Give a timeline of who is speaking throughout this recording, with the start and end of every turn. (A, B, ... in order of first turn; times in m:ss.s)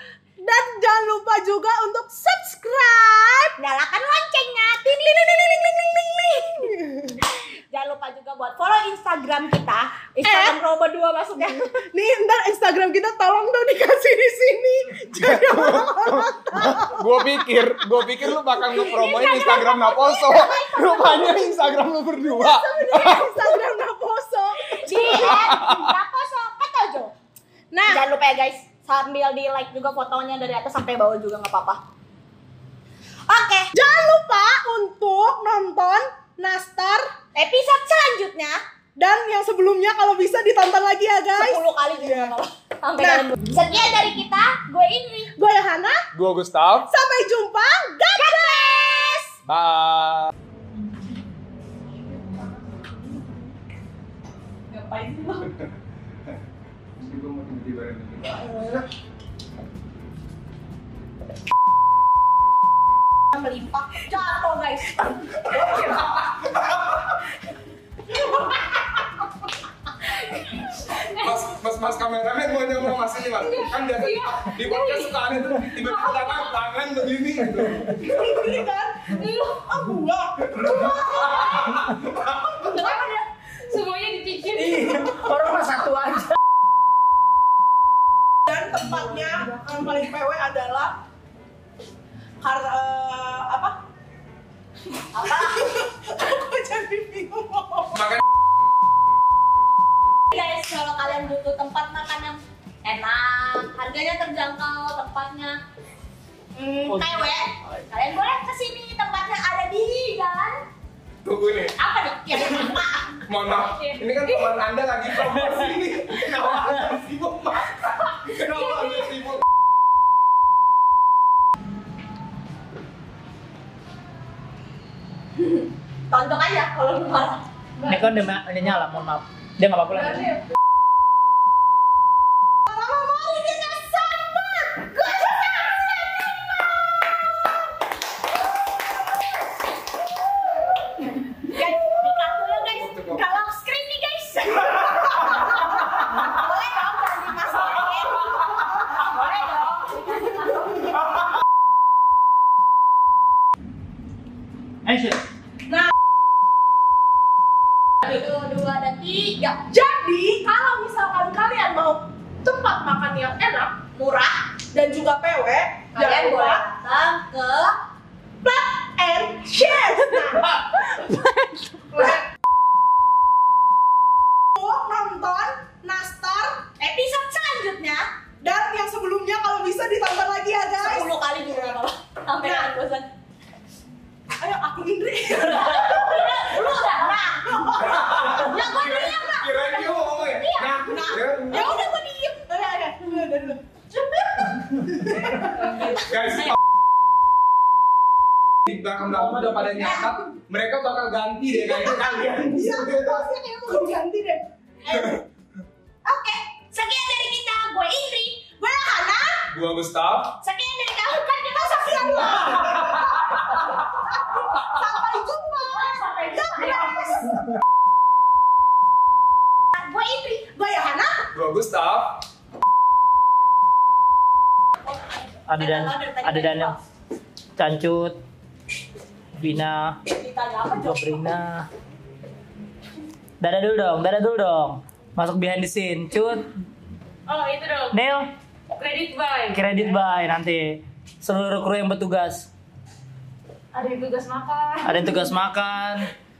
0:00.4-0:03.6 A
0:03.6-0:05.9 B
0:05.6-0:07.2 A
0:07.2-0:11.8 B
0:10.2-0:10.5 A
0:11.4-0:17.0 A
0:15.2-0:23.4 C
0:18.7-0:21.5 B
0:20.7-0:25.7 A
0:24.7-0:27.1 B
0:25.1-0:25.9 C
0:27.7-0:28.0 A
0:27.9-0:31.8 B
0:33.3-0:33.7 B
0:33.7-0:37.1 A
0:37.3-0:38.6 B
0:39.0-0:42.4 A
0:41.4-0:45.3 B
0:43.0-0:43.3 A
0:45.4-0:46.0 A
0:46.1-0:46.9 C
0:46.9-0:49.1 A
0:48.2-0:49.3 B
0:49.4-0:50.3 C
0:54.7-0:55.5 B
0:57.0-0:58.8 C
1:03.3-1:05.9 B
1:05.4-1:07.1 C
1:11.0-1:18.2 C
1:13.8-1:16.5 B
1:17.9-1:21.7 A
1:19.2-1:19.6 B
1:20.6-1:22.7 C
1:21.2-1:21.8 B
1:22.6-1:23.2 A
1:22.6-1:24.8 B
1:24.5-1:26.3 D
1:28.5-1:31.0 A
1:32.4-1:33.8 A
1:35.1-1:35.8 B
1:35.2-1:38.1 A
1:40.3-1:45.6 B
1:46.5-1:50.6 B
1:46.9-1:47.2 D
1:51.2-1:51.7 C
1:51.8-1:54.5 B
1:53.3-1:59.4 C
1:58.4-1:59.2 B
2:06.1-2:07.4 B
2:07.8-2:10.4 D
2:12.7-2:14.7 A
2:13.4-2:13.9 B
2:14.8-2:16.7 B
2:21.4-2:25.6 B
2:22.8-2:23.2 C
2:26.1-2:31.0 B
2:34.8-2:35.2 D
2:38.0-2:39.6 B
2:39.7-2:43.8 A
2:43.9-2:44.4 B
2:44.7-2:46.6 A
2:45.9-2:47.8 B
2:48.4-2:50.6 A
2:51.9-2:52.2 A
2:54.6-2:56.7 A
2:56.8-2:58.0 B
2:58.4-3:01.1 A
3:00.8-3:03.1 B
3:02.4-3:02.7 A
3:04.4-3:08.5 A
3:05.4-3:12.8 B
3:07.9-3:11.7 C
3:11.5-3:13.6 A
3:14.2-3:15.6 A
3:15.9-3:16.6 C
3:18.6-3:23.2 C
3:21.5-3:25.2 A
3:26.0-3:28.5 B
3:28.6-3:29.4 A
3:29.5-3:30.4 C
3:30.4-3:32.7 B
3:31.6-3:32.9 A
3:32.6-3:33.4 C
3:34.2-3:37.3 A
3:35.8-3:37.2 B
3:39.7-3:40.5 B
3:40.5-3:41.2 A
3:41.3-3:42.2 C
3:44.9-3:46.8 B
3:45.5-3:46.8 D
3:47.6-3:48.2 D
3:49.4-3:50.0 D
3:50.1-3:51.2 B
3:50.8-3:51.7 D
3:53.4-3:56.5 D
3:57.3-3:57.9 B
3:57.9-3:58.3 D
3:58.8-3:59.6 B
3:59.5-4:02.5 D
4:03.7-4:05.2 B
4:04.8-4:06.1 D